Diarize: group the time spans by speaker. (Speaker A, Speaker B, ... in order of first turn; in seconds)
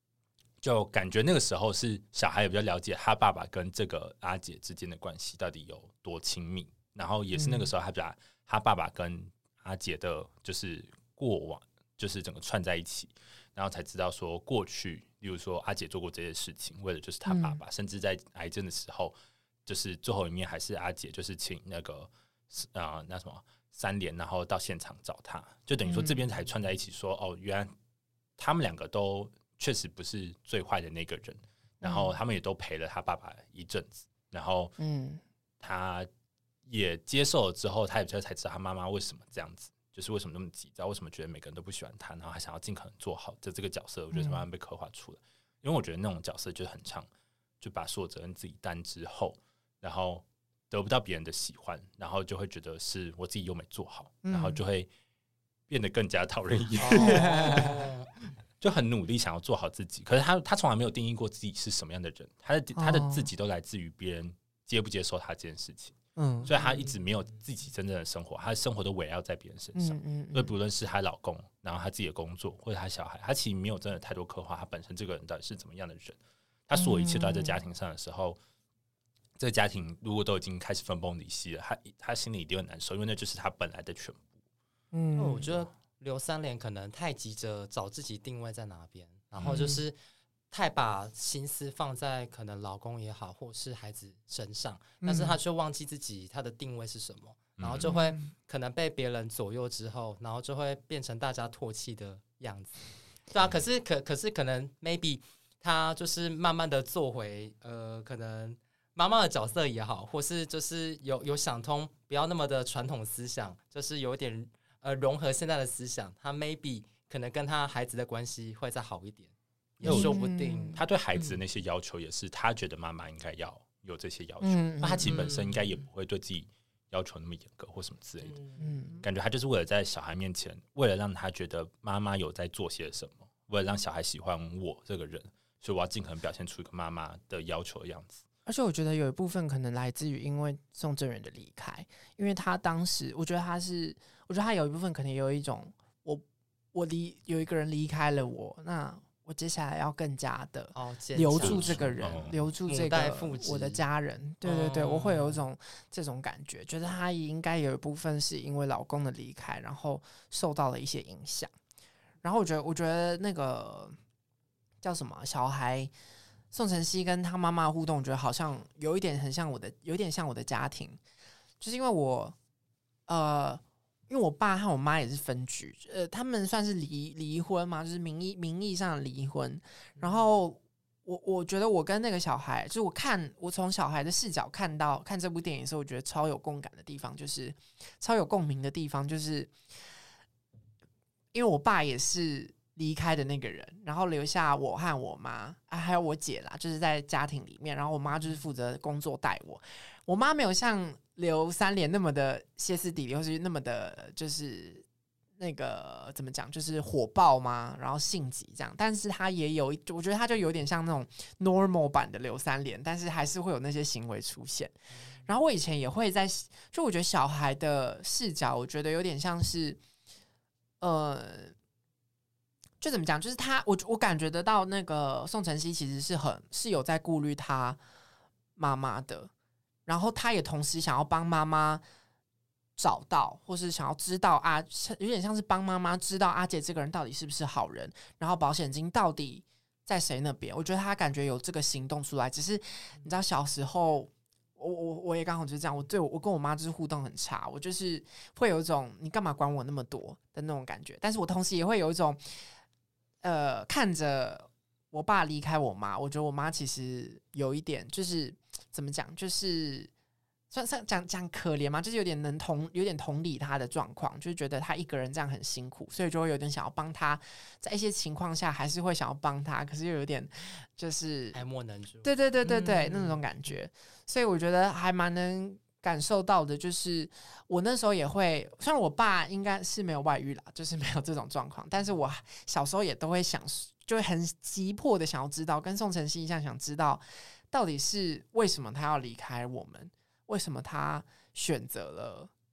Speaker A: 0.6-27.7, 28.4-34.7, 35.6-36.1, 36.6-47.1, 47.6-54.9, 55.7-57.7, 58.6-78.4, 79.4-84.3, 89.4-89.7, 97.6-98.0, 119.8-128.4, 129.0-138.2, 151.4-152.4
Speaker B: 7.3-7.7, 17.2-17.6, 25.8-26.2, 31.8-32.1, 34.8-35.2, 44.1-44.4, 54.2-54.6, 56.9-57.7, 62.8-63.3, 66.2-66.5, 69.7-70.5, 76.7-77.6, 84.9-85.5, 89.5-89.8, 95.0-95.4, 97.9-98.3, 119.8-120.8, 124.4-125.2, 128.6-129.0, 138.4-146.2, 146.7-161.5, 162.2-163.9, 164.8-165.9, 166.5-171.0, 171.6-172.3, 173.1-189.7, 191.3-204.8, 205.4-214.7, 215.2-219.8, 220.8-221.5, 222.8-227.8, 228.6-229.3, 229.8-231.8, 232.8-252.4, 253.2-259.9, 260.5-271.4, 272.0-292.3
Speaker C: 56.8-58.1, 85.2-90.0, 90.5-121.3, 125.0-125.8, 128.2-128.7, 150.7-152.1, 152.7-153.8, 154.4-155.4, 271.3-273.2